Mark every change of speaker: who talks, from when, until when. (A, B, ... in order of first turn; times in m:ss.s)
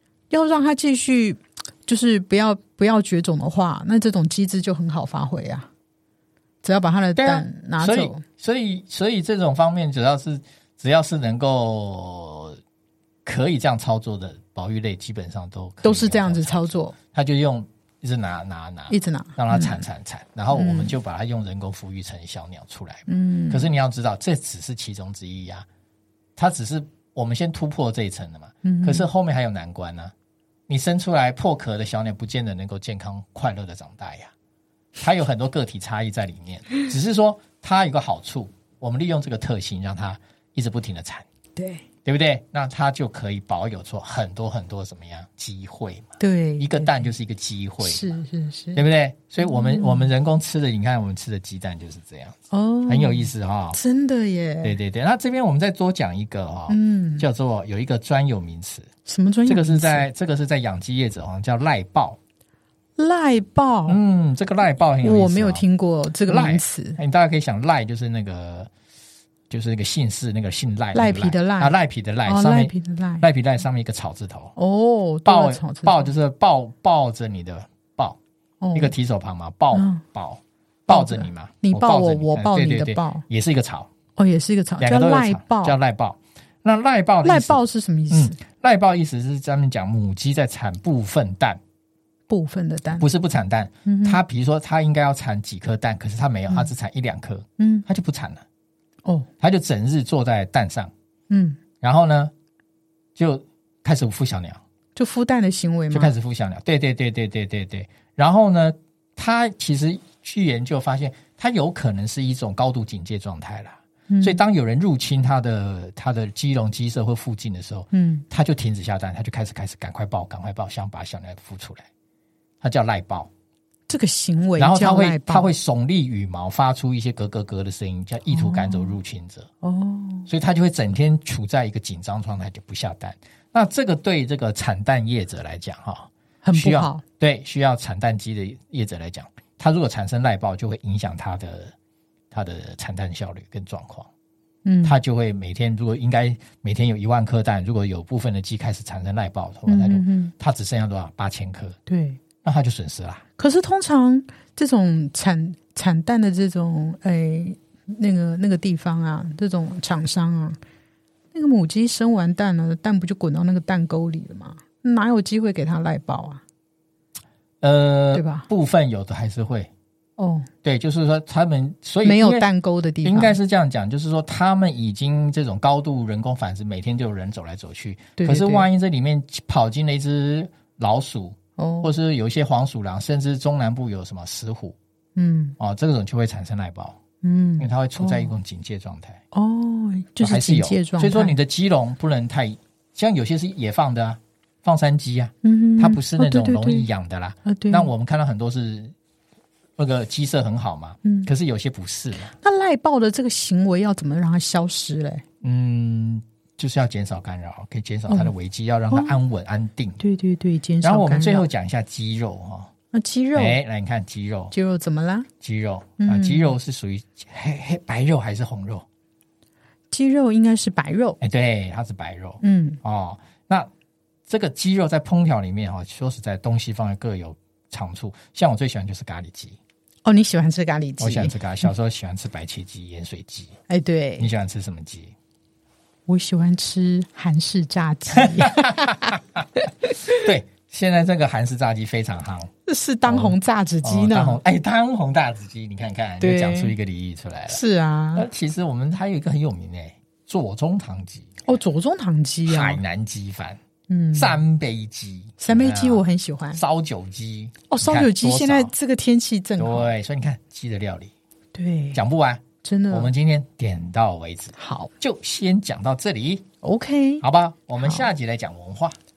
0:00.3-0:05.7 A
0:06.6-0:08.2 A
0:07.2-0:12.6 B
0:13.2-0:25.6 B
0:15.8-0:16.9 A
0:18.9-0:19.8 A
0:20.5-0:21.0 A
0:23.1-0:23.6 A
0:26.4-0:30.1 B
0:28.6-0:29.1 A
0:30.7-0:34.3 B
0:35.0-0:41.2 B
0:41.6-0:41.8 A
0:42.0-0:48.1 B
0:46.2-0:47.1 A
0:47.8-0:48.8 A
0:48.7-0:53.8 B
0:49.4-0:50.1 A
0:52.5-0:54.8 A
0:54.6-0:58.9 B
0:56.7-0:57.3 A
0:59.0-1:00.0 A
0:59.5-1:02.2 B
1:03.0-1:04.0 A
1:03.9-1:05.6 B
1:05.0-1:07.0 A
1:06.3-1:08.7 B
1:09.5-1:14.6 B
1:10.9-1:13.2 A
1:14.6-1:16.1 A
1:15.2-1:18.2 B
1:18.6-1:18.9 A
1:18.7-1:23.9 B
1:19.7-1:20.0 A
1:20.9-1:23.2 A
1:24.2-1:25.8 A
1:24.8-1:27.6 B
1:27.2-1:28.4 A
1:28.1-1:31.6 B
1:32.3-1:33.0 A
1:32.9-1:38.4 B
1:33.8-1:34.2 A
1:37.6-1:37.8 A
1:39.4-1:40.9 B
1:41.3-1:41.6 A
1:41.8-1:42.3 B
1:43.2-1:44.6 B
1:44.9-1:46.1 A
1:45.9-2:01.9 B
1:54.1-1:54.4 A
1:57.9-1:58.2 A
2:02.6-2:03.3 B
2:03.9-2:05.5 A
2:04.6-2:09.5 B
2:08.3-2:08.9 A
2:09.6-2:10.3 A
2:10.3-2:21.7 B
2:16.4-2:17.0 A
2:22.3-2:24.1 B
2:24.6-2:25.0 A
2:24.8-2:31.8 B
2:29.7-2:30.3 A
2:31.9-2:32.2 A
2:32.4-2:33.2 B
2:33.4-2:40.6 A
2:41.3-2:46.4 A
2:47.6-2:49.7 B
2:48.1-2:48.5 A
2:50.2-2:50.5 A
2:50.6-2:52.4 B
2:52.0-2:53.4 A
2:53.0-3:04.8 B
2:58.2-2:58.7 A
3:01.6-3:01.9 A
3:05.2-3:05.6 A
3:05.6-3:07.0 B
3:07.2-3:08.4 A
3:07.6-3:09.2 B
3:09.3-3:11.4 A
3:10.2-3:18.9 B
3:15.4-3:16.9 A
3:17.4-3:17.9 A
3:19.8-3:22.3 B
3:21.0-3:21.3 A
3:22.3-3:25.2 A
3:25.4-3:30.0 B
3:28.1-3:28.3 A
3:28.9-3:29.2 A
3:30.0-3:31.4 A
3:30.8-3:32.7 B
3:32.9-3:33.6 A
3:33.3-3:34.5 B
3:34.5-3:35.3 A
3:35.4-3:38.8 B
3:36.0-3:36.5 A
3:39.9-3:41.2 A
3:41.2-3:43.7 B
3:42.4-3:42.8 A
3:44.3-3:49.6 B
3:50.0-3:51.7 A
3:51.0-3:53.5 B
3:53.7-3:54.3 A
3:54.2-3:55.1 B
3:56.1-3:59.1 A
3:58.1-4:02.5 B
3:59.8-4:00.1 A
4:02.7-4:04.4 A
4:03.0-4:07.6 B
4:06.2-4:06.7 A
4:07.5-4:08.3 A
4:08.1-4:11.4 B
4:11.4-4:12.8 A
4:12.4-4:13.6 B
4:13.9-4:14.4 A
4:14.1-4:18.7 B
4:15.4-4:16.6 A
4:17.7-4:19.9 A
4:19.6-4:21.1 B
4:21.5-4:22.0 A
4:21.9-4:26.5 B
4:22.6-4:23.1 A
4:24.6-4:24.9 A
4:26.6-4:27.2 A
4:27.2-4:29.0 B
4:27.8-4:28.0 A